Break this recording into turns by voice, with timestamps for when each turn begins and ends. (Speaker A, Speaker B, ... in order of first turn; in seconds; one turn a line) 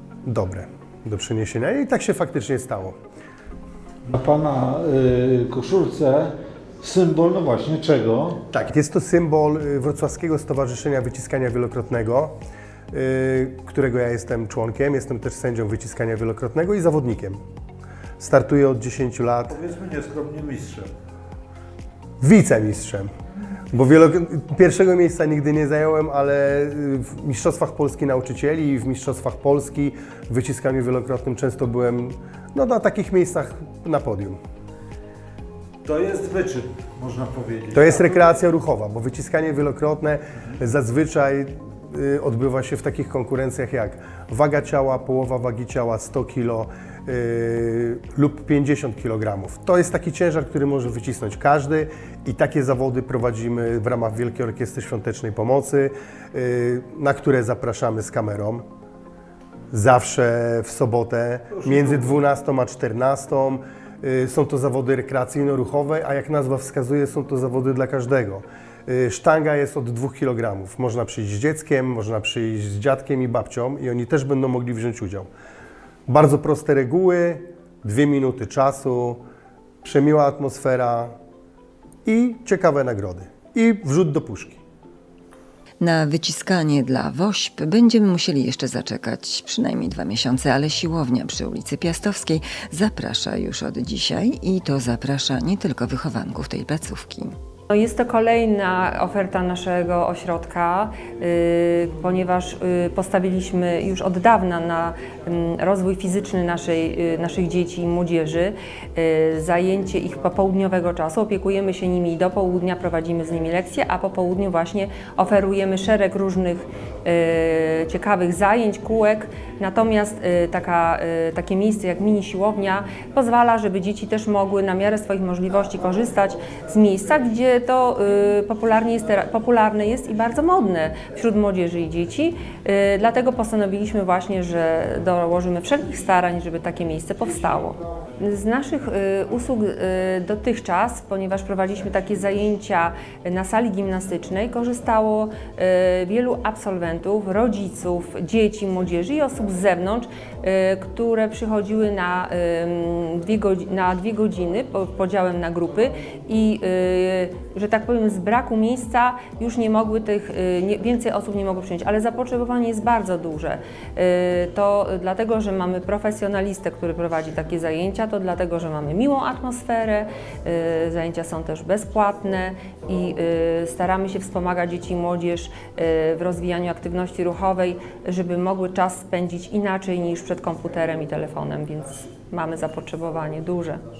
Speaker A: 0.2-3.0
Speaker B: 4.1-8.4
Speaker A: 8.5-12.3
Speaker A: 12.9-17.4
Speaker A: 18.2-19.5
Speaker B: 19.5-20.9
Speaker A: 22.2-23.1
Speaker A: 23.7-34.4
Speaker B: 35.8-38.1
Speaker A: 37.7-58.6
Speaker A: 59.7-75.3
Speaker A: 76.1-79.2
Speaker A: 79.8-81.1
Speaker A: 82.0-84.6
Speaker C: 85.8-97.4
Speaker D: 97.7-183.8